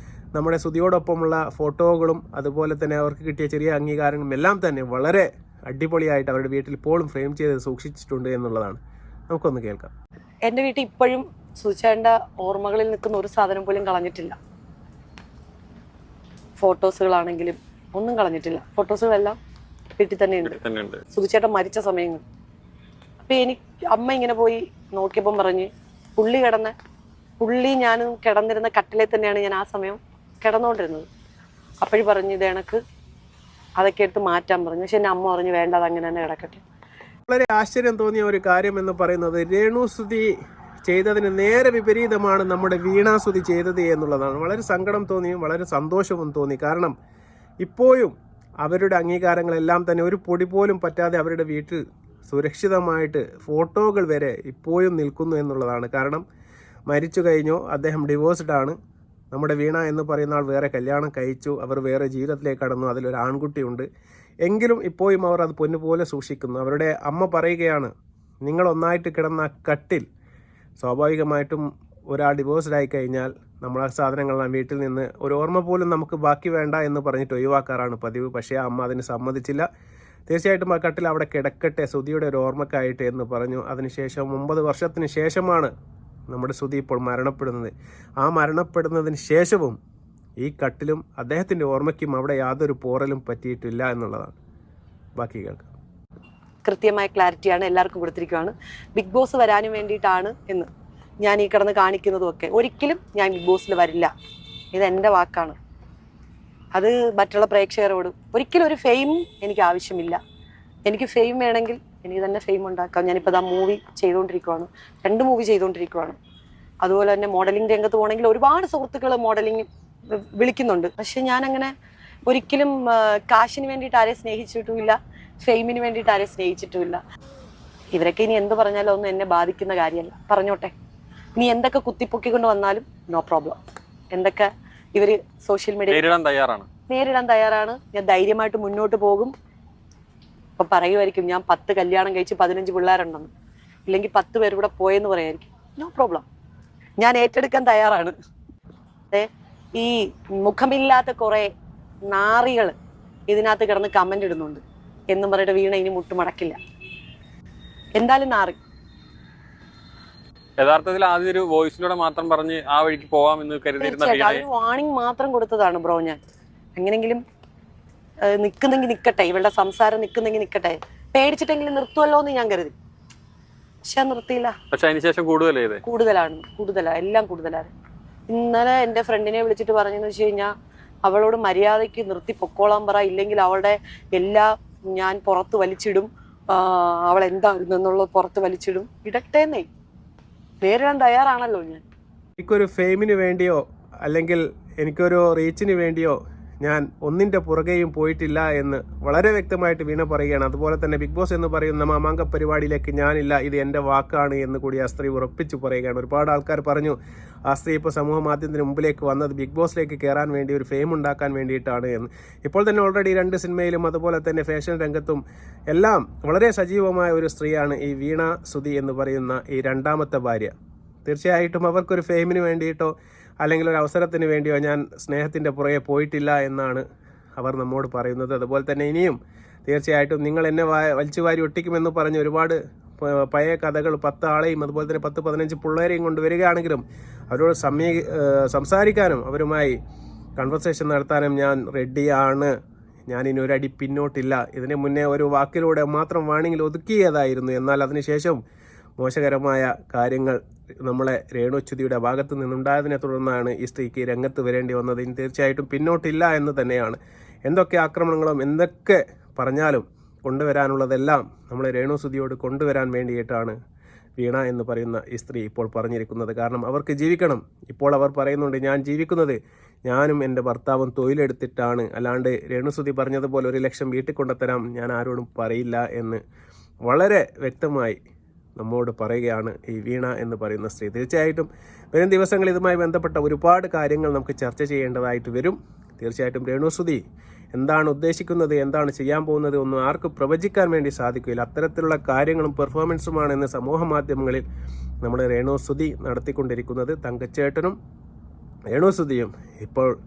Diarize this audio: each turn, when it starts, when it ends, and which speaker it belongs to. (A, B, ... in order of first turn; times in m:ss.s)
0:00.3-0:09.9 A
0:10.4-0:14.4 B
0:16.6-0:19.4 B
0:20.0-0:20.6 B
0:20.4-0:21.0 C
0:21.1-0:22.2 B
0:23.2-0:26.7 B
0:27.4-0:31.1 B
0:31.8-0:32.8 B
0:33.8-0:36.6 B
0:37.3-0:40.3 A
0:40.8-0:46.9 A
0:47.6-0:56.2 A
0:56.9-0:58.7 A
0:59.3-1:03.8 A
1:04.4-1:07.9 A
1:08.4-1:10.0 A
1:10.8-1:19.6 A
1:20.3-1:25.7 A
1:26.3-1:29.8 A
1:30.4-1:34.4 A
1:35.2-1:35.7 A
1:36.6-1:40.7 B
1:41.2-1:44.1 B
1:44.7-1:45.6 B
1:46.7-1:50.2 B
1:50.8-1:56.2 B
1:56.8-2:01.7 B
2:02.3-2:07.0 B
2:07.9-2:10.7 B
2:11.4-2:13.6 B
2:14.1-2:16.0 B
2:15.9-2:16.7 C
2:16.9-2:19.3 B
2:20.6-2:23.3 B
2:23.9-2:26.2 B
2:27.0-2:28.1 B
2:29.1-2:31.5 B
2:32.1-2:32.7 B
2:33.3-2:36.6 B
2:38.0-2:38.6 B
2:40.6-2:44.4 C
2:43.8-2:46.2 B
2:46.8-2:47.2 B
2:48.2-2:52.7 B
2:53.8-2:54.5 B
2:54.7-2:55.8 C
2:55.8-2:57.7 B
2:58.3-3:00.5 B
3:01.0-3:09.7 B
3:10.6-3:11.8 B
3:12.4-3:27.0 A
3:27.5-3:40.5 A
3:41.0-3:46.8 A
3:47.4-3:49.2 A
3:49.7-3:59.8 A
4:00.4-4:02.5 A
4:03.1-4:08.4 A
4:09.0-4:23.5 A
4:24.2-4:36.2 A
4:36.9-4:38.0 A
4:38.6-4:47.0 A
4:47.5-4:54.4 A
4:55.0-4:57.8 A
4:58.7-4:59.9 A